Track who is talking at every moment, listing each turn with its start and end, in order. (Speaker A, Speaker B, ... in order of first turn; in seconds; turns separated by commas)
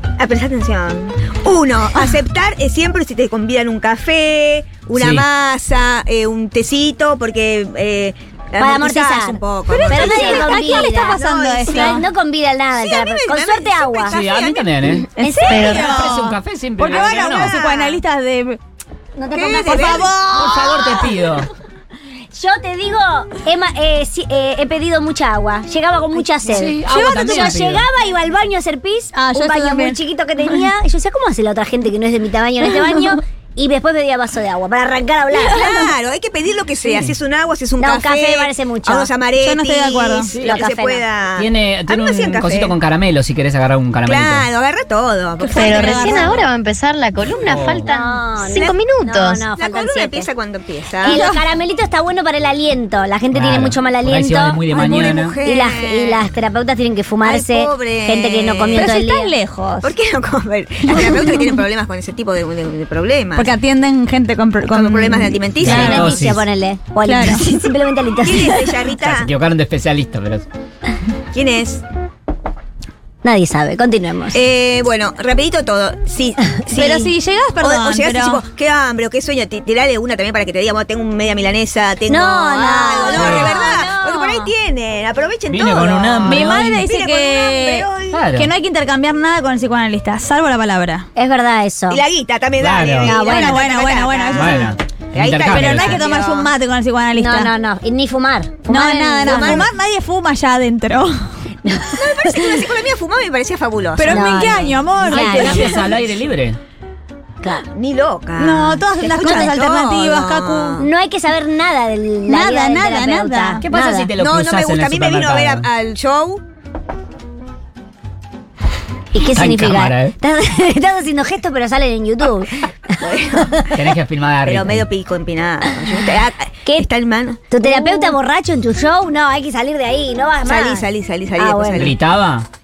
Speaker A: 0.2-12.1, Speaker B: 5.0-5.2, Speaker C: 8.6-14.2, Speaker D: 9.7-12.1, Speaker A: 12.7-14.7, Speaker B: 14.1-17.6, Speaker C: 15.2-15.8, Speaker D: 15.2-18.6, Speaker E: 15.5-15.8, Speaker A: 16.9-18.0, Speaker C: 19.1-20.1, Speaker A: 19.3-20.1, Speaker D: 19.6-21.0, Speaker B: 20.3-21.5, Speaker C: 22.3-35.7, Speaker B: 26.5-27.9, Speaker D: 26.7-27.6, Speaker D: 29.1-30.0, Speaker A: 35.4-42.8, Speaker C: 37.8-39.1, Speaker D: 39.4-40.3, Speaker B: 40.3-40.6, Speaker C: 40.4-41.0, Speaker B: 41.4-44.5, Speaker A: 44.0-46.4, Speaker D: 45.4-46.4, Speaker E: 45.5-49.4, Speaker B: 47.2-48.0, Speaker C: 47.8-50.3, Speaker A: 48.5-48.9, Speaker A: 49.5-51.3, Speaker C: 51.0-59.3, Speaker D: 51.1-51.4, Speaker B: 53.3-55.3, Speaker A: 54.7-56.2, Speaker A: 57.2-58.9, Speaker D: 58.7-59.9, Speaker A: 59.8-63.5, Speaker D: 60.9-61.4, Speaker D: 63.3-66.1, Speaker A: 64.7-66.3, Speaker B: 65.6-66.4, Speaker C: 65.6-68.5, Speaker D: 67.0-67.4, Speaker A: 68.2-69.3, Speaker B: 69.0-70.5, Speaker A: 71.3-71.8, Speaker C: 73.2-74.4, Speaker A: 74.3-88.2, Speaker D: 76.7-78.4, Speaker C: 82.1-84.4, Speaker B: 83.2-83.6, Speaker B: 85.5-86.8, Speaker D: 86.2-91.1, Speaker B: 88.1-88.5, Speaker C: 91.2-92.0, Speaker A: 91.9-96.5, Speaker B: 92.6-93.2, Speaker C: 93.0-93.7, Speaker D: 93.2-94.7, Speaker B: 94.3-96.0, Speaker D: 95.5-97.5, Speaker C: 97.2-99.7, Speaker D: 98.7-101.3, Speaker A: 99.2-99.7, Speaker C: 101.6-102.0, Speaker A: 101.9-104.8, Speaker D: 104.0-106.0, Speaker C: 104.1-105.8, Speaker B: 105.1-106.6, Speaker A: 107.7-110.9, Speaker D: 108.4-110.8, Speaker C: 109.2-109.5, Speaker C: 110.8-114.1, Speaker D: 112.3-113.7, Speaker B: 113.6-115.7, Speaker A: 114.2-116.4, Speaker C: 119.1-123.7, Speaker B: 119.3-120.1, Speaker A: 123.0-123.8, Speaker B: 123.7-124.8, Speaker A: 124.5-128.1, Speaker C: 127.5-131.9, Speaker A: 130.4-132.0, Speaker B: 131.8-132.5